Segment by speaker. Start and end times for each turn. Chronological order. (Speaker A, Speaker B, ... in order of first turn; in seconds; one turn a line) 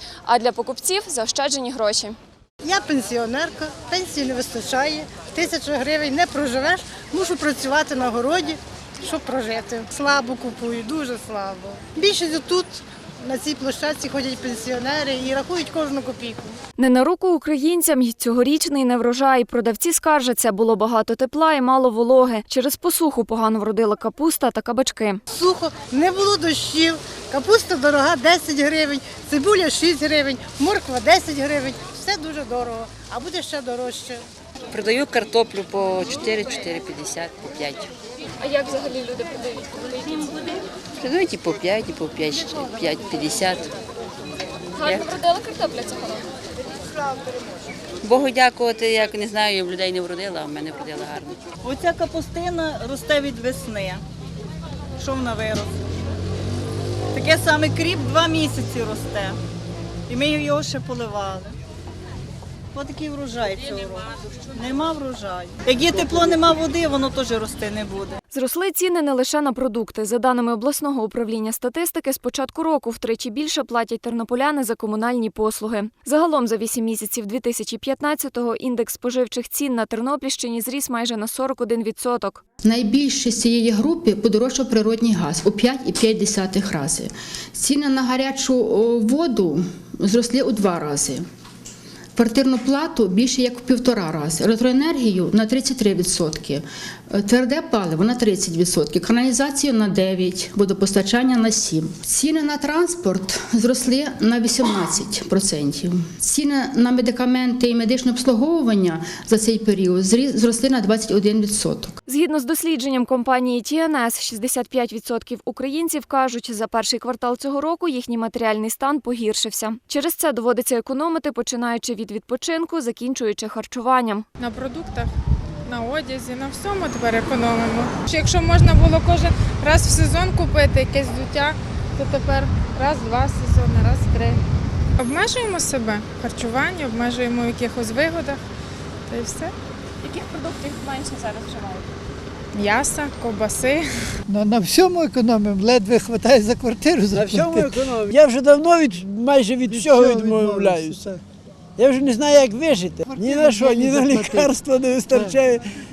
Speaker A: 0.2-2.1
Speaker B: 2.6-16.6
Speaker A: 16.8-25.2
Speaker B: 25.3-34.2
Speaker C: 34.7-37.9
Speaker A: 38.5-39.6
Speaker C: 41.0-43.7
Speaker C: 44.8-45.2
Speaker A: 44.8-46.2
Speaker C: 48.0-51.4
Speaker D: 51.7-54.0
Speaker D: 55.0-55.8
Speaker D: 57.1-59.4
Speaker D: 60.1-61.5
Speaker D: 62.7-68.2
Speaker A: 68.3-82.4
Speaker E: 82.6-91.2
Speaker E: 92.2-112.0
Speaker A: 112.1-124.2
Speaker F: 124.5-125.1
Speaker F: 125.7-134.3
Speaker F: 135.1-138.4
Speaker F: 139.1-139.5
Speaker F: 142.6-143.8
Speaker G: 144.3-147.6
Speaker H: 147.1-151.0
Speaker G: 149.7-151.2
Speaker H: 151.8-155.7
Speaker G: 153.1-154.5